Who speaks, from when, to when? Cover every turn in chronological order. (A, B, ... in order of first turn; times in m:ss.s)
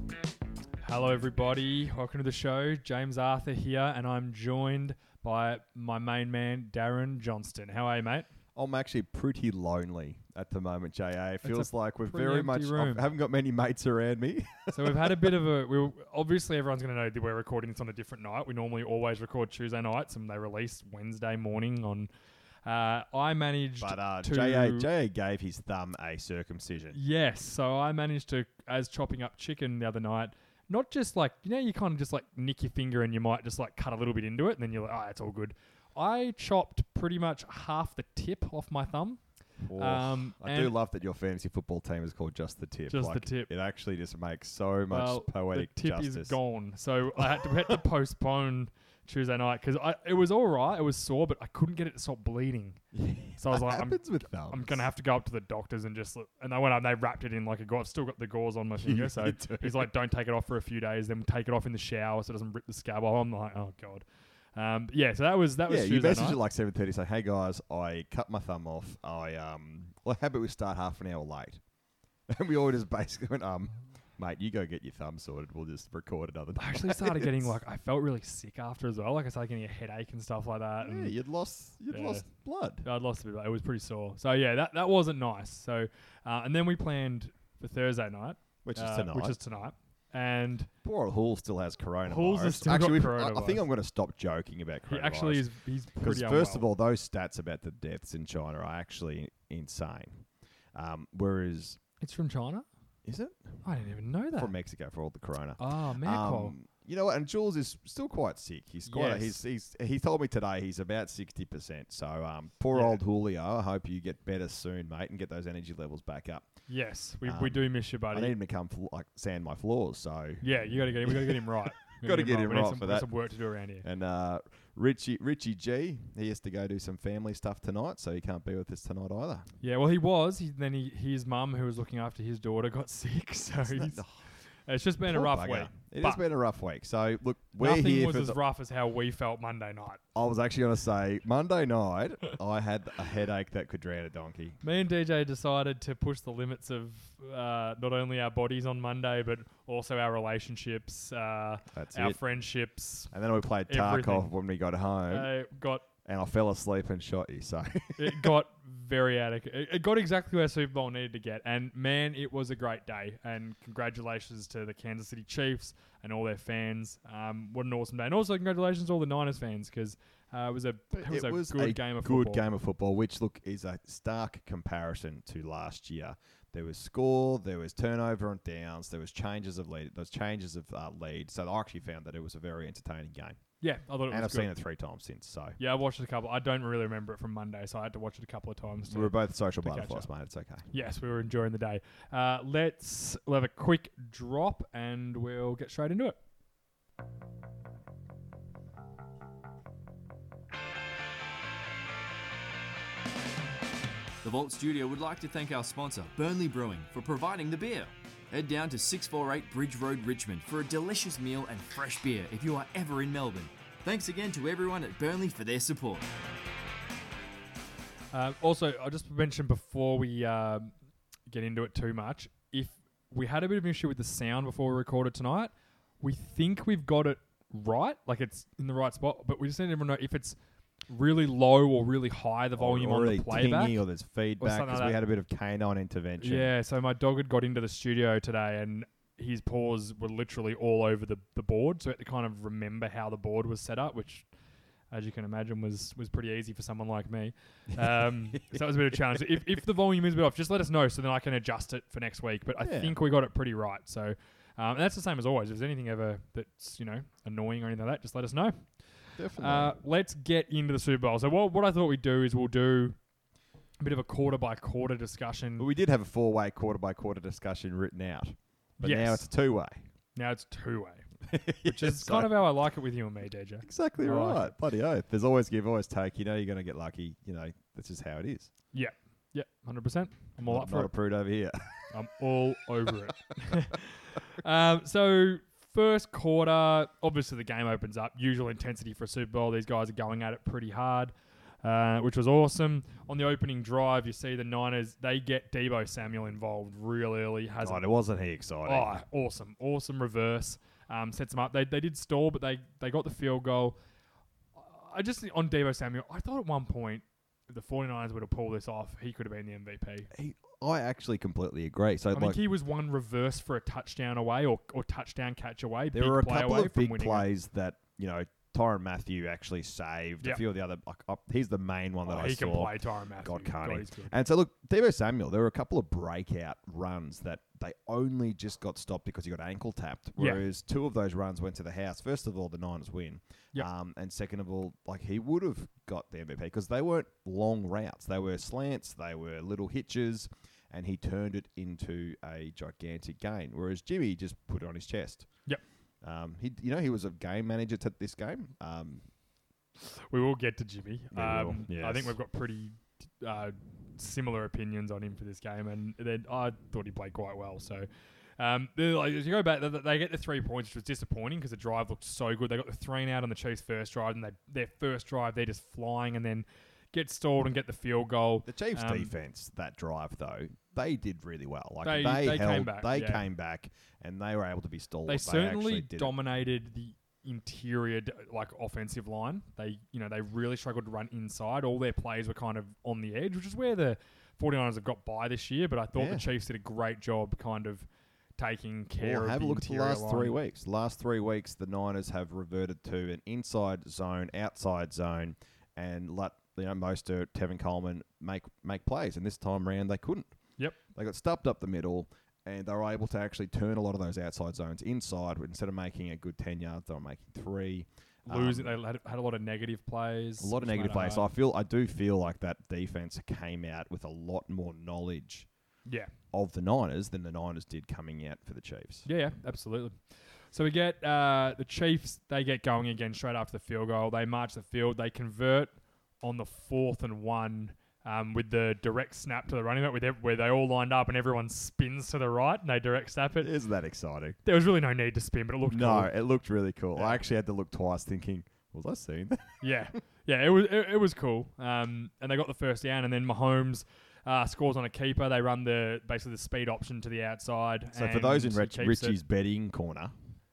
0:00.8-0:08.3 A
0:08.5-0:15.3 B
0:11.4-0:13.0 A
0:14.7-0:22.1 A
0:22.7-0:24.9 A
0:23.8-0:27.0 B
0:26.9-0:39.2 A
0:39.6-0:46.4 B
0:39.8-0:40.7 A
0:42.9-0:43.5 A
0:44.9-0:52.8 A
0:47.2-0:47.8 B
0:52.9-0:54.8 B
0:53.4-1:04.0 A
0:58.8-0:59.9 B
1:04.6-1:06.4 A
1:05.7-1:11.6 B
1:12.3-1:17.6 B
1:16.6-1:21.1 A
1:20.8-1:22.9 B
1:21.9-1:22.2 A
1:22.8-1:30.7 A
1:28.6-1:29.4 B
1:30.8-1:41.8 B
1:32.0-1:33.6 A
1:34.9-1:36.7 A
1:42.0-1:42.7 A
1:43.0-1:43.6 B
1:43.6-1:44.5 A
1:44.3-1:56.5 B
1:45.6-1:46.5 A
1:48.9-1:49.4 A
1:52.7-1:53.0 A
1:56.7-1:58.3 A
1:57.2-2:00.4 B
2:00.4-2:03.9 A
2:01.0-2:03.1 B
2:03.8-2:09.5 B
2:09.6-2:14.0 A
2:13.6-2:14.2 B
2:14.6-2:16.2 A
2:15.1-2:18.4 B
2:17.6-2:20.0 A
2:20.1-2:24.6 B
2:24.6-2:33.1 A
2:31.7-2:32.2 B
2:33.1-2:35.3 B
2:33.7-2:34.3 A
2:35.1-2:35.8 A
2:36.0-2:38.3 B
2:38.0-2:52.4 A
2:50.9-3:03.4 B
3:03.6-3:04.5 A
3:04.1-3:05.6 B
3:05.6-3:10.1 A
3:08.9-3:10.6 B
3:10.7-3:16.2 A
3:24.2-3:36.1 C
3:38.1-3:40.7 A
3:41.3-3:50.4 A
3:50.9-3:53.8 A
3:52.6-3:56.5 B
3:54.4-3:55.0 A
3:56.2-4:04.3 A
4:04.9-4:18.6 A
4:07.8-4:08.9 B
4:12.6-4:13.0 B
4:19.2-4:19.8 B
4:19.4-4:23.0 A
4:23.8-4:25.7 A
4:25.6-4:29.9 B
4:28.8-4:29.3 A
4:30.1-4:31.1 A
4:31.3-4:32.3 B
4:31.6-4:34.5 A
4:33.6-4:38.5 B
4:38.7-4:40.9 A
4:40.4-4:41.8 B
4:41.9-4:51.1 A
4:51.6-4:57.8 A
4:57.6-4:58.9 B
4:58.6-5:03.8 A
5:04.6-5:10.1 A
5:10.1-5:12.4 B
5:12.1-5:17.3 A
5:15.9-5:45.3 B
5:22.1-5:24.1 A
5:30.2-5:30.4 A
5:46.0-5:49.0 B
5:49.8-5:57.8 A
5:51.1-5:52.2 B
5:58.4-6:09.1 A
6:08.4-6:16.1 B
6:11.8-6:13.3 A
6:15.1-6:27.8 A
6:25.9-6:26.2 B
6:28.4-6:30.3 A
6:29.0-6:40.3 B
6:40.9-6:48.8 B
6:48.3-6:51.3 A
6:50.4-6:55.5 B
6:55.8-6:56.1 A
6:56.3-6:59.1 B
6:59.1-7:00.0 A
7:00.5-7:05.7 A
7:06.2-7:13.5 A
7:13.4-7:14.4 B
7:14.4-7:16.1 A
7:15.7-7:19.6 B
7:19.6-7:29.2 A
7:27.9-7:30.1 B